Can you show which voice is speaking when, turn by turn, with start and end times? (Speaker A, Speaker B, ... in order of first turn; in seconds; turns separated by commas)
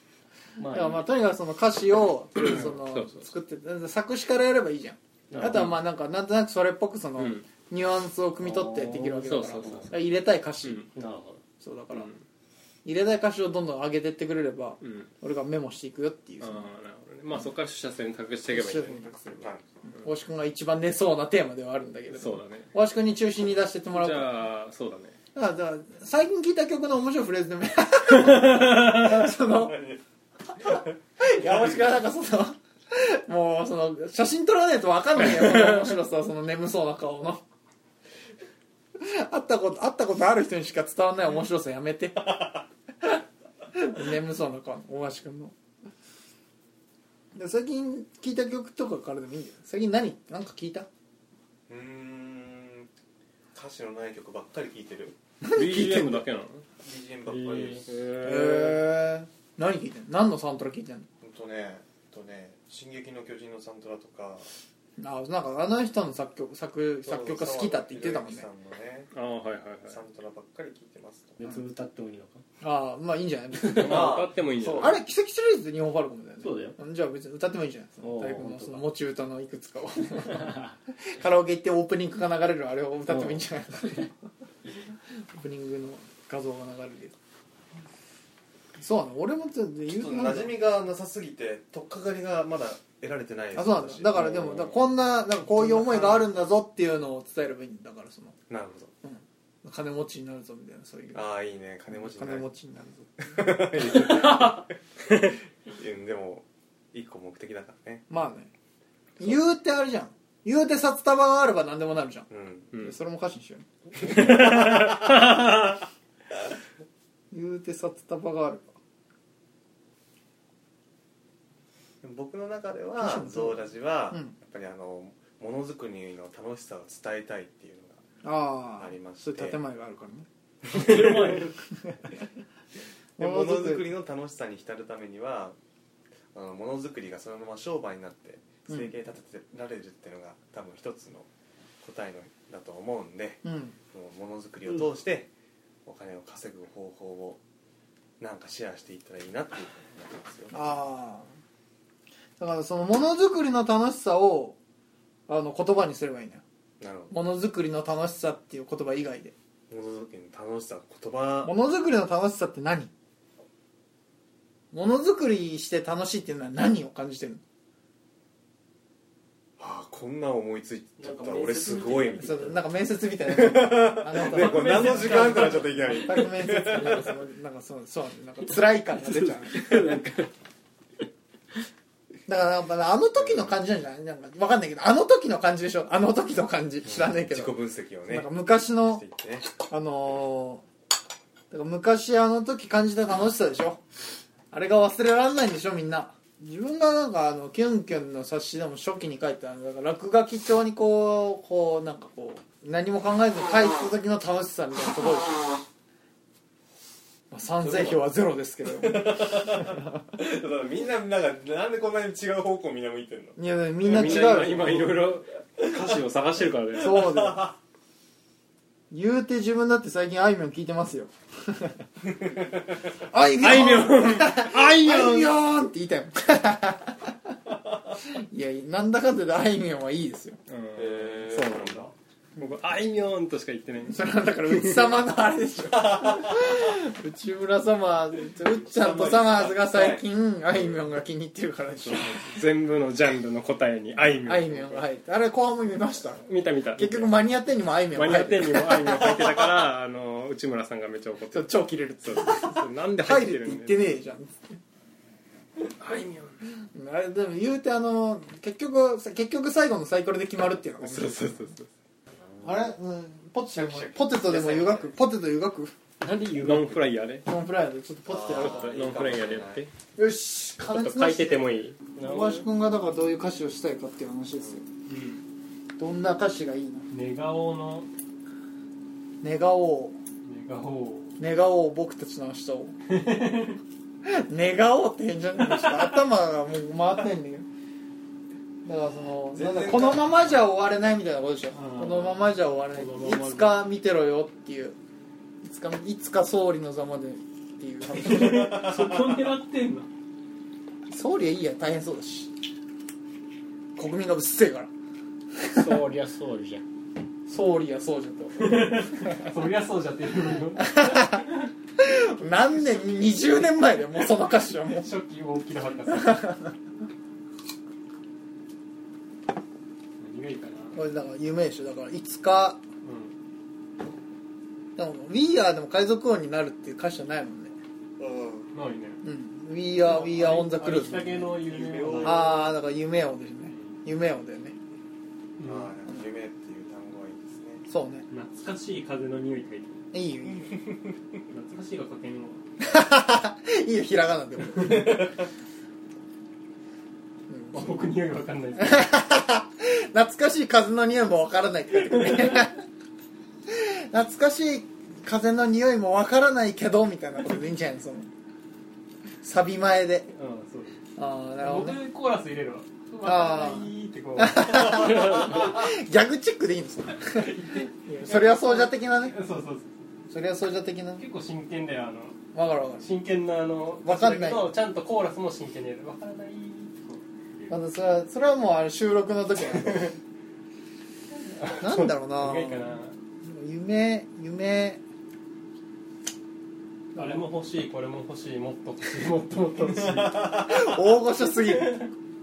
Speaker A: 0.6-1.1, Speaker B: 0.7-10.8, Speaker C: 2.4-3.3, Speaker A: 5.3-5.8, Speaker C: 5.4-5.8, Speaker C: 7.2-7.5, Speaker A: 8.4-9.9, Speaker C: 9.2-9.9, Speaker C: 10.6-10.9, Speaker A: 10.9-11.4, Speaker B: 11.6-12.1, Speaker C: 11.9-12.2, Speaker B: 12.8-16.7, Speaker C: 14.8-15.1, Speaker C: 16.4-19.5, Speaker B: 18.5-19.4, Speaker B: 20.0-24.3, Speaker C: 22.1-22.7, Speaker C: 23.9-25.1, Speaker B: 25.4-29.8, Speaker D: 29.4-30.0, Speaker B: 30.6-37.4, Speaker D: 30.6-30.9, Speaker B: 39.0-42.5, Speaker B: 43.7-45.5, Speaker B: 47.3-50.9, Speaker D: 51.7-52.9, Speaker D: 53.5-55.1, Speaker B: 55.4-56.2, Speaker C: 55.5-56.6, Speaker D: 56.8-57.9, Speaker A: 57.3-57.8, Speaker C: 57.9-58.9, Speaker B: 58.2-61.1, Speaker D: 61.2-64.5, Speaker B: 65.0-68.5, Speaker D: 67.0-69.1, Speaker C: 69.1-70.0, Speaker D: 69.8-71.4, Speaker A: 71.4-72.4, Speaker B: 72.6-74.2, Speaker C: 73.7-75.0, Speaker D: 73.8-75.0, Speaker B: 74.8-84.1, Speaker A: 76.4-76.8, Speaker A: 78.0-78.8, Speaker A: 83.2-83.4, Speaker B: 85.3-87.2, Speaker B: 88.8-90.6, Speaker D: 89.9-94.8, Speaker B: 93.5-98.4, Speaker D: 98.5-98.9, Speaker B: 99.0-101.3, Speaker D: 101.1-102.5, Speaker B: 101.9-103.4, Speaker D: 103.2-108.1, Speaker B: 108.1-108.5, Speaker B: 109.2-113.7, Speaker D: 112.3-112.7, Speaker C: 114.0-115.7, Speaker D: 114.2-115.1, Speaker B: 117.3-118.7, Speaker D: 122.0-128.0, Speaker B: 123.0-123.6, Speaker B: 128.2-130.3, Speaker D: 128.8-129.6, Speaker C: 130.7-131.5, Speaker D: 130.7-131.3, Speaker A: 130.9-131.2, Speaker B: 133.2-133.9, Speaker D: 133.2-135.6, Speaker D: 136.3-141.3, Speaker D: 141.8-145.3, Speaker B: 143.4-143.8, Speaker D: 145.9-147.4, Speaker D: 148.2-150.7, Speaker B: 150.5-151.3, Speaker B: 152.4-154.6, Speaker B: 155.3-156.4, Speaker D: 156.8-157.2, Speaker B: 157.1-159.3, Speaker D: 159.7-161.5, Speaker B: 161.4-162.9, Speaker B: 164.7-167.4, Speaker D: 169.6-172.6, Speaker A: 171.0-172.6, Speaker B: 172.2-180.0, Speaker D: 173.2-177.1, Speaker C: 174.3-175.6, Speaker A: 174.6-175.7, Speaker A: 178.9-180.3, Speaker B: 182.3-187.6, Speaker D: 186.9-189.5, Speaker B: 188.1-189.0, Speaker B: 189.7-190.7, Speaker B: 191.5-193.8, Speaker B: 194.5-205.6, Speaker B: 207.3-209.9, Speaker D: 207.6-208.0, Speaker D: 208.7-213.4, Speaker B: 213.4-214.9, Speaker C: 213.8-217.2, Speaker B: 216.8-217.5, Speaker D: 216.8-217.6, Speaker B: 218.9-221.8, Speaker D: 222.2-222.6, Speaker B: 223.1-227.1, Speaker C: 223.4-225.4, Speaker B: 228.1-230.4, Speaker C: 230.5-235.0, Speaker D: 230.8-231.9, Speaker B: 233.9-242.3, Speaker D: 235.9-236.3, Speaker D: 238.6-240.1, Speaker C: 241.9-244.8, Speaker B: 244.2-249.2, Speaker C: 246.3-247.2, Speaker C: 247.9-254.0, Speaker B: 251.3-254.6, Speaker C: 255.6-256.4, Speaker B: 256.8-261.5, Speaker C: 260.8-261.7, Speaker D: 262.3-262.7, Speaker B: 262.4-265.7, Speaker D: 263.6-264.2, Speaker A: 266.0-266.9, Speaker C: 266.3-267.3, Speaker B: 267.3-268.7, Speaker D: 268.1-269.7, Speaker C: 268.3-269.7, Speaker B: 270.0-274.7, Speaker C: 270.7-271.9, Speaker A: 272.0-272.4, Speaker C: 274.9-275.2, Speaker B: 275.8-276.9, Speaker C: 276.9-277.9, Speaker B: 279.2-280.0, Speaker C: 280.3-281.1, Speaker B: 281.2-282.8, Speaker C: 282.9-283.6, Speaker B: 284.0-287.5, Speaker C: 285.4-286.0, Speaker B: 288.6-294.8, Speaker D: 289.3-290.2, Speaker C: 291.5-293.6, Speaker B: 295.4-298.8, Speaker C: 297.9-299.9, Speaker D: 298.2-299.0, Speaker B: 300.9-302.3, Speaker B: 303.8-304.7, Speaker B: 305.5-305.8, Speaker A: 305.5-306.6, Speaker B: 307.3-309.2, Speaker C: 308.4-311.5, Speaker B: 310.6-311.3, Speaker B: 311.8-314.9, Speaker C: 314.7-316.3, Speaker B: 315.9-316.5, Speaker C: 320.0-320.8, Speaker B: 320.7-322.6, Speaker C: 322.8-323.1, Speaker B: 324.8-327.6, Speaker D: 328.0-328.5, Speaker C: 328.5-329.0, Speaker B: 329.0-331.3, Speaker C: 329.8-332.5, Speaker D: 331.4-332.4, Speaker B: 332.0-334.6, Speaker C: 335.4-335.7, Speaker D: 335.4-337.6, Speaker B: 337.7-338.1, Speaker C: 338.1-339.8, Speaker B: 339.9-340.6, Speaker C: 341.3-342.4, Speaker B: 342.6-345.1, Speaker D: 344.6-345.2, Speaker B: 347.3-347.9, Speaker C: 347.5-348.9, Speaker B: 348.6-352.6, Speaker B: 353.5-358.1, Speaker B: 359.2-360.1, Speaker C: 360.1-360.8, Speaker B: 361.0-361.8, Speaker C: 361.4-365.6, Speaker B: 363.0-367.3, Speaker C: 367.1-369.8, Speaker B: 367.9-369.2, Speaker B: 370.1-371.0, Speaker C: 371.0-372.2, Speaker B: 372.3-372.9, Speaker C: 372.8-377.6, Speaker B: 373.8-374.5, Speaker B: 377.5-379.9, Speaker C: 381.2-383.0, Speaker B: 381.6-384.8, Speaker B: 386.9-387.2, Speaker C: 386.9-390.6, Speaker B: 390.3-391.9, Speaker C: 391.4-391.9